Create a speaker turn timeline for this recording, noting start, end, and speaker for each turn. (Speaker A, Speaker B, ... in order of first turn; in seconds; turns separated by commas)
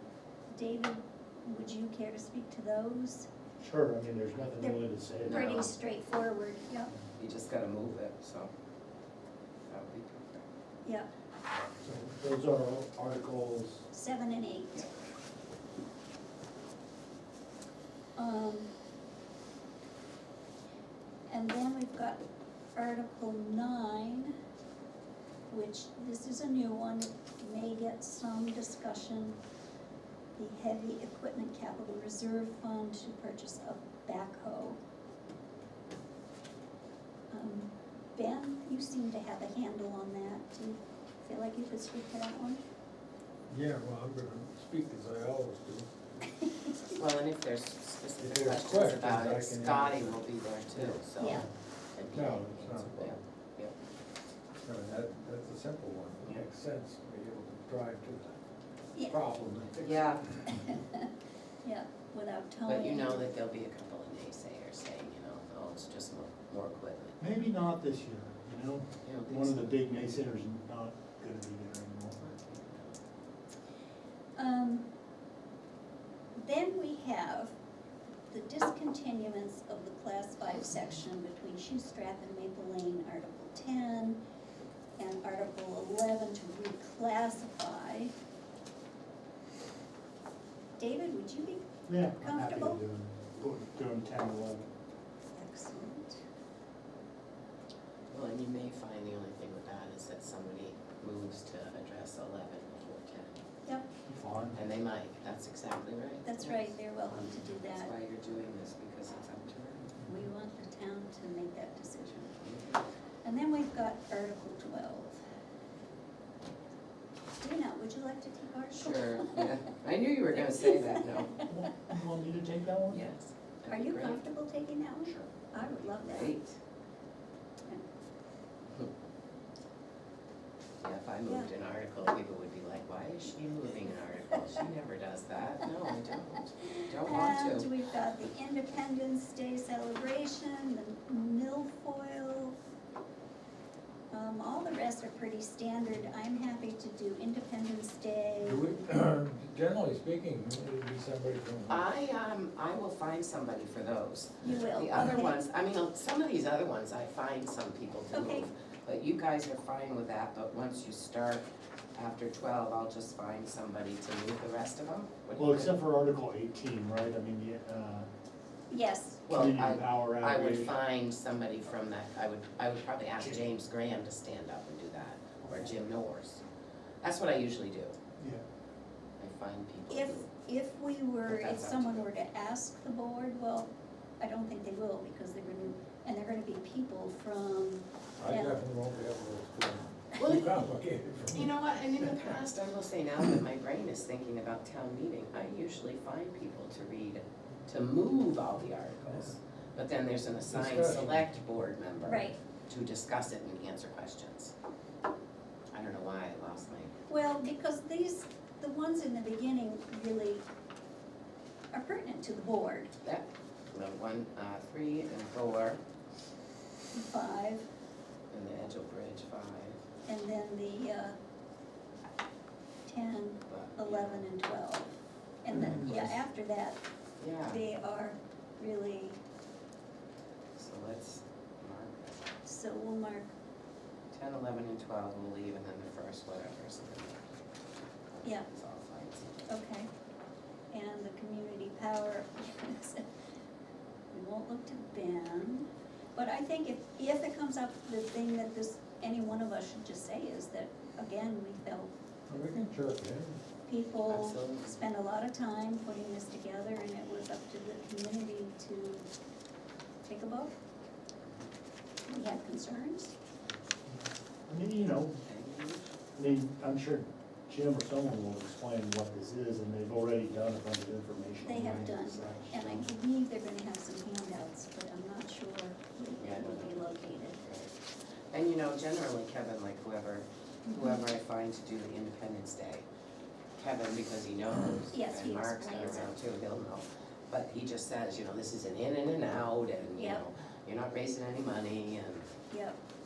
Speaker A: 0.5-3.3, Speaker B: 3.6-5.4, Speaker A: 4.6-6.9, Speaker C: 5.3-5.7, Speaker C: 7.2-8.5, Speaker C: 9.7-10.4, Speaker B: 11.8-13.8, Speaker A: 13.9-14.8, Speaker A: 18.2-18.7, Speaker A: 21.3-22.2, Speaker A: 22.7-24.4, Speaker A: 25.5-29.4, Speaker A: 30.4-34.8, Speaker A: 37.3-42.6, Speaker D: 43.5-46.2, Speaker A: 46.4-46.7, Speaker C: 47.0-53.7, Speaker D: 48.2-50.2, Speaker A: 51.2-51.5, Speaker B: 52.1-53.0, Speaker D: 52.1-53.1, Speaker D: 54.6-58.4, Speaker A: 58.9-59.2, Speaker D: 59.1-60.1, Speaker C: 59.8-60.2, Speaker A: 60.5-61.1, Speaker A: 61.6-63.3, Speaker C: 62.6-67.2, Speaker B: 67.2-72.2, Speaker C: 69.0-69.6, Speaker C: 72.2-73.0, Speaker A: 74.4-74.9, Speaker A: 76.3-77.5, Speaker A: 78.3-84.2, Speaker A: 85.0-88.1, Speaker A: 90.8-91.7, Speaker B: 91.9-94.6, Speaker A: 92.2-92.8, Speaker A: 95.3-96.2, Speaker C: 98.1-103.3, Speaker B: 104.1-104.6, Speaker C: 104.5-110.0, Speaker A: 106.2-107.9, Speaker A: 110.0-112.4, Speaker C: 112.4-112.8, Speaker A: 113.2-115.2, Speaker A: 117.4-119.5, Speaker C: 118.7-121.4, Speaker A: 120.3-121.7, Speaker B: 121.5-123.0, Speaker C: 122.9-124.2, Speaker A: 123.7-126.3, Speaker C: 125.0-126.5, Speaker C: 130.8-137.7, Speaker A: 136.7-142.6, Speaker A: 144.1-148.6, Speaker D: 148.4-151.9, Speaker C: 151.7-161.4, Speaker A: 154.4-155.4, Speaker A: 158.1-158.4, Speaker C: 161.9-165.8, Speaker B: 165.4-168.1, Speaker A: 168.7-169.2, Speaker C: 169.3-176.4, Speaker B: 169.3-170.7, Speaker B: 173.2-173.5, Speaker C: 177.0-177.9, Speaker C: 179.2-180.3, Speaker A: 179.9-188.6, Speaker C: 181.2-182.1, Speaker D: 188.2-191.5, Speaker C: 190.2-190.5, Speaker C: 191.3-204.5, Speaker D: 200.5-201.3, Speaker A: 202.1-202.3, Speaker C: 205.7-206.9, Speaker A: 207.1-210.4, Speaker A: 211.7-212.9, Speaker C: 213.0-215.8, Speaker A: 216.9-217.7, Speaker C: 218.3-219.8, Speaker A: 220.1-221.1, Speaker A: 222.8-226.8, Speaker C: 223.5-224.3, Speaker B: 225.6-226.1, Speaker C: 227.2-227.6, Speaker A: 227.4-229.2, Speaker C: 230.6-232.3, Speaker A: 232.4-233.3, Speaker C: 234.1-237.3, Speaker C: 238.5-239.5, Speaker A: 239.5-239.9, Speaker A: 240.7-243.0, Speaker A: 244.1-251.9, Speaker D: 252.3-253.4, Speaker A: 253.7-259.1, Speaker C: 254.1-254.8, Speaker A: 260.0-260.5, Speaker A: 262.1-263.1, Speaker B: 263.9-265.2, Speaker C: 265.2-265.8, Speaker B: 266.1-272.9, Speaker A: 271.4-277.4, Speaker C: 271.6-271.9, Speaker C: 276.2-277.7, Speaker C: 278.3-282.9, Speaker A: 280.6-281.0, Speaker C: 283.6-292.3, Speaker A: 284.9-286.1, Speaker A: 290.0-290.2, Speaker A: 292.5-292.8